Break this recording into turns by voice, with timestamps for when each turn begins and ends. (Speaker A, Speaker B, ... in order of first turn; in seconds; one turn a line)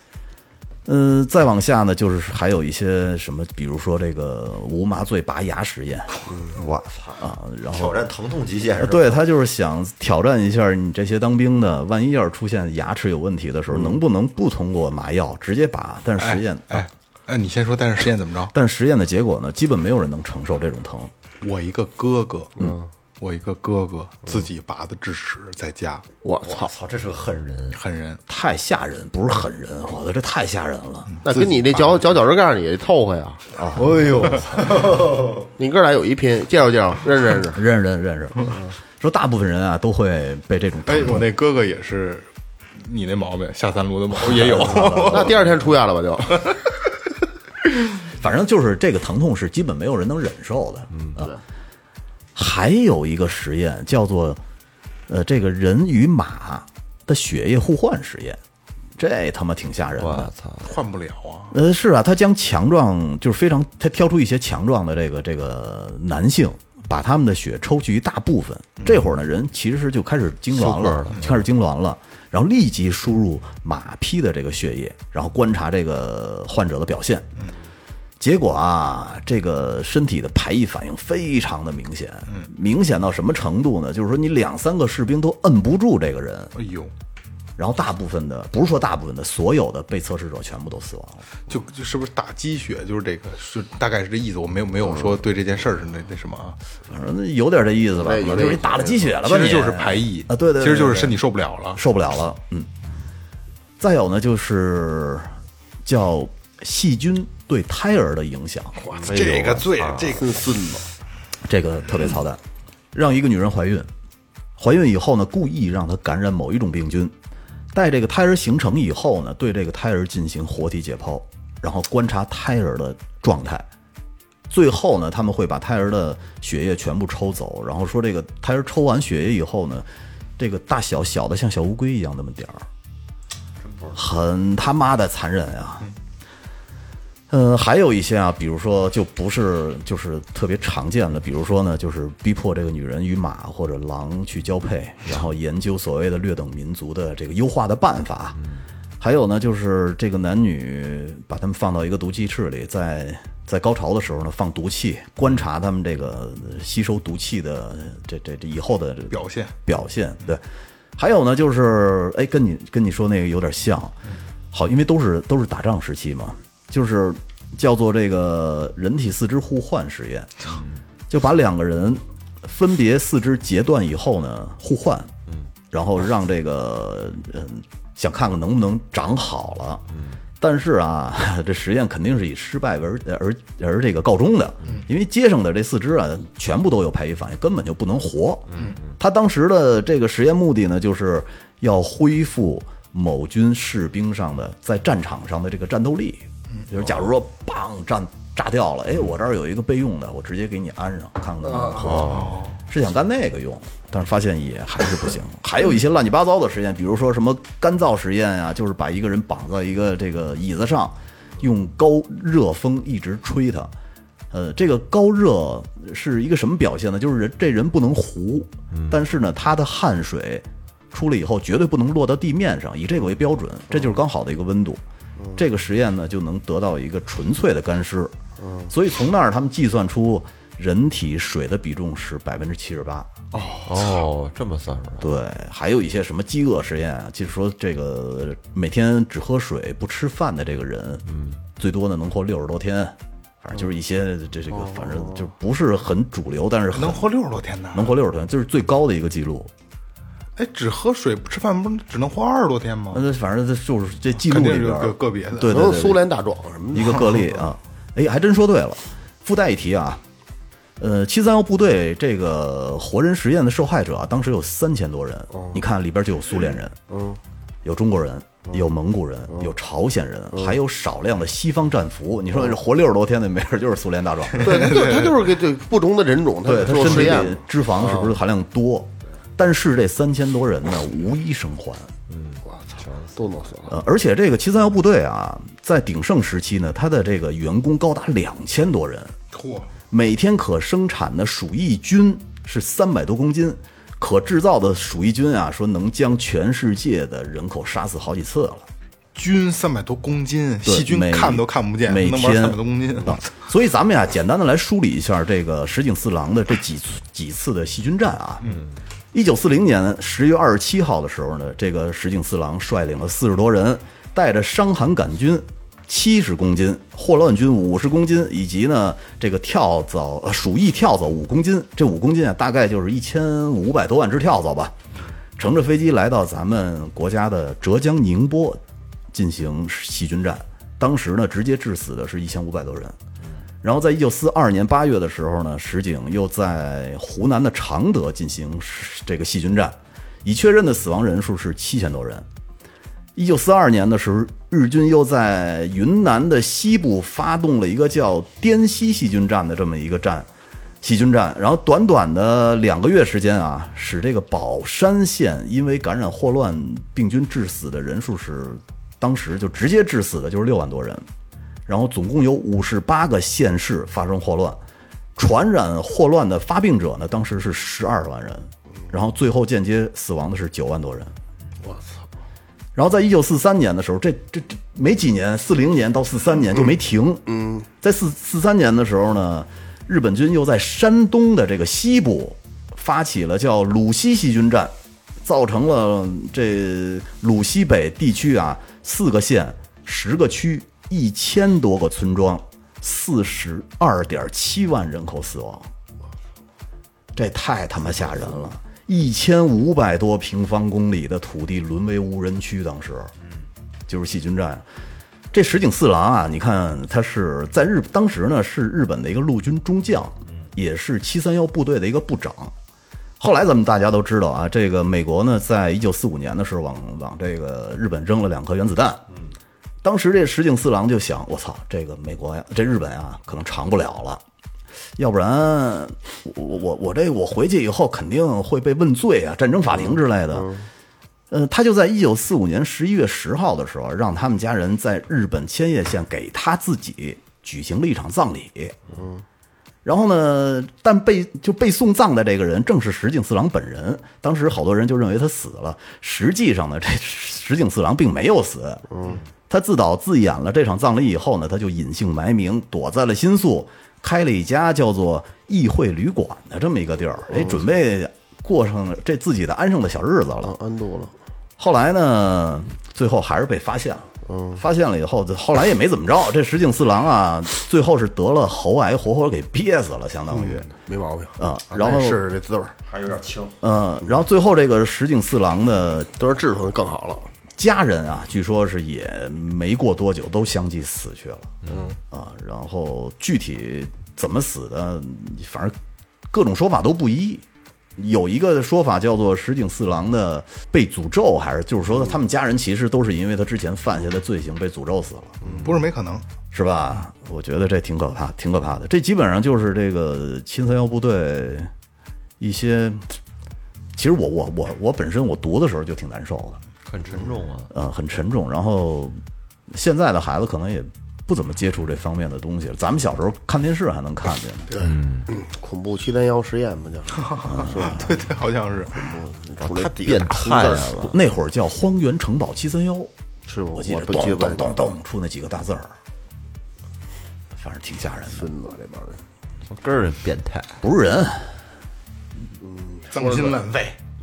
Speaker A: 0.8-6.1
Speaker B: 6.3-6.5
Speaker C: 6.5-9.2
Speaker A: 7.2-8.0
Speaker A: 8.8-16.9
Speaker D: 16.2-18.5
Speaker A: 18.5-21.1
Speaker D: 21.4-26.0
Speaker B: 22.6-22.9
Speaker B: 26.2-26.7
Speaker C: 26.4-27.8
Speaker D: 27.7-28.2
Speaker A: 28.3-31.1
Speaker D: 31.1-32.0
Speaker B: 31.2-33.4
Speaker A: 33.5-34.0
Speaker C: 33.7-35.5
Speaker B: 35.6-37.6
Speaker A: 37.5-41.2
Speaker D: 40.9-42.3
Speaker D: 42.8-45.4
Speaker A: 44.2-45.4
Speaker B: 45.0-46.4
Speaker A: 48.1-51.3
Speaker C: 50.9-51.2
Speaker A: 52.3-54.4
Speaker A: 55.1-58.4
Speaker A: 59.0-60.3
Speaker C: 60.0-60.8
Speaker D: 60.6-61.5
Speaker A: 61.5-77.3
Speaker C: 70.5-71.3
Speaker A: 78.2-86.5
Speaker D: 86.5-86.9
Speaker A: 87.6-91.2
Speaker D: 91.5-96.6
Speaker A: 96.9-101.2
Speaker B: 98.0-99.1
Speaker D: 99.1-101.8
Speaker A: 101.7-102.7
Speaker A: 103.8-105.3
Speaker A: 105.8-108.8
Speaker D: 108.8-110.4
Speaker C: 109.1-110.2
Speaker B: 110.1-110.8
Speaker A: 111.4-112.4
Speaker A: 112.9-113.9
Speaker A: 114.6-117.1
Speaker A: 117.7-123.7
Speaker A: 124.5-129.8
Speaker A: 130.4-132.7
Speaker C: 133.6-133.9
Speaker A: 133.9-135.9
Speaker A: 137.3-148.4
Speaker A: 149.0-160.4
Speaker D: 159.1-159.5
Speaker A: 161.0-164.0
Speaker A: 164.5-170.6
Speaker A: 171.1-175.1
Speaker A: 175.7-179.8
Speaker C: 179.9-180.2
Speaker A: 180.4-213.7
Speaker C: 188.5-188.9
Speaker B: 201.4-201.8
Speaker C: 201.8-202.4
Speaker D: 202.1-202.6
Speaker A: 214.3-224.8
Speaker C: 218.7-219.0
Speaker A: 225.3-228.1
Speaker B: 228.4-228.7
Speaker A: 228.7-233.1
Speaker B: 233.3-233.7
Speaker C: 233.6-235.1
Speaker A: 235.0-247.1
Speaker C: 241.1-241.4
Speaker B: 244.6-245.1
Speaker D: 246.7-247.9
Speaker A: 247.7-249.5
Speaker D: 250.3-253.0
Speaker A: 252.9-256.0
Speaker D: 254.2-255.6
Speaker B: 255.4-257.2
Speaker A: 256.7-260.0
Speaker A: 260.8-266.8
Speaker B: 265.3-265.6
Speaker B: 266.9-267.2
Speaker A: 267.6-274.8
Speaker B: 274.4-278.1
Speaker D: 274.5-275.1
Speaker A: 276.4-281.9
Speaker C: 282.1-283.0
Speaker B: 282.5-283.8
Speaker A: 283.7-289.1
Speaker D: 289.3-289.7
Speaker A: 289.9-298.7
Speaker D: 299.1-303.3
Speaker A: 300.6-308.6
Speaker A: 309.1-324.7
Speaker A: 325.4-328.6
Speaker A: 329.1-332.9
Speaker A: 333.6-342.2
Speaker A: 343.1-350.3
Speaker A: 350.8-361.0
Speaker A: 361.7-364.6
Speaker A: 365.1-371.1
Speaker B: 371.6-372.1
Speaker A: 372.7-377.2
Speaker B: 377.3-377.6
Speaker A: 377.8-395.7
Speaker A: 397.1-403.1
Speaker A: 403.9-404.6
Speaker A: 405.3-412.5
Speaker A: 413.2-419.1
Speaker A: 419.8-424.2
Speaker A: 425.0-430.5
Speaker B: 429.9-430.7
Speaker A: 431.3-438.8
Speaker B: 438.9-439.2
Speaker A: 439.8-448.9
Speaker B: 448.9-449.2
Speaker A: 449.5-460.5
Speaker B: 457.3-457.6
Speaker B: 460.4-461.1
Speaker A: 461.6-470.7
Speaker B: 464.2-464.6
Speaker B: 470.3-472.7
Speaker A: 471.4-472.2
Speaker C: 472.9-473.6
Speaker A: 473.6-476.1
Speaker B: 476.2-477.3
Speaker A: 477.6-481.6
Speaker B: 481.7-481.9
Speaker A: 482.1-485.7
Speaker A: 486.3-487.4
Speaker A: 488.0-495.5
Speaker D: 495.6-496.2
Speaker A: 496.5-501.7
Speaker A: 502.4-503.2
Speaker A: 503.9-506.6
Speaker C: 506.9-507.7
Speaker A: 507.7-514.8
Speaker B: 514.8-518.2
Speaker C: 514.8-515.3
Speaker D: 517.2-519.0
Speaker A: 517.5-518.1
Speaker B: 518.9-521.1
Speaker C: 519.6-521.1
Speaker A: 520.9-523.1
Speaker B: 523.5-524.8
Speaker A: 523.7-525.9
Speaker A: 527.5-528.5
Speaker B: 528.3-529.2
Speaker C: 529.7-530.8
Speaker A: 530.8-531.6
Speaker B: 532.6-533.6
Speaker D: 533.1-534.0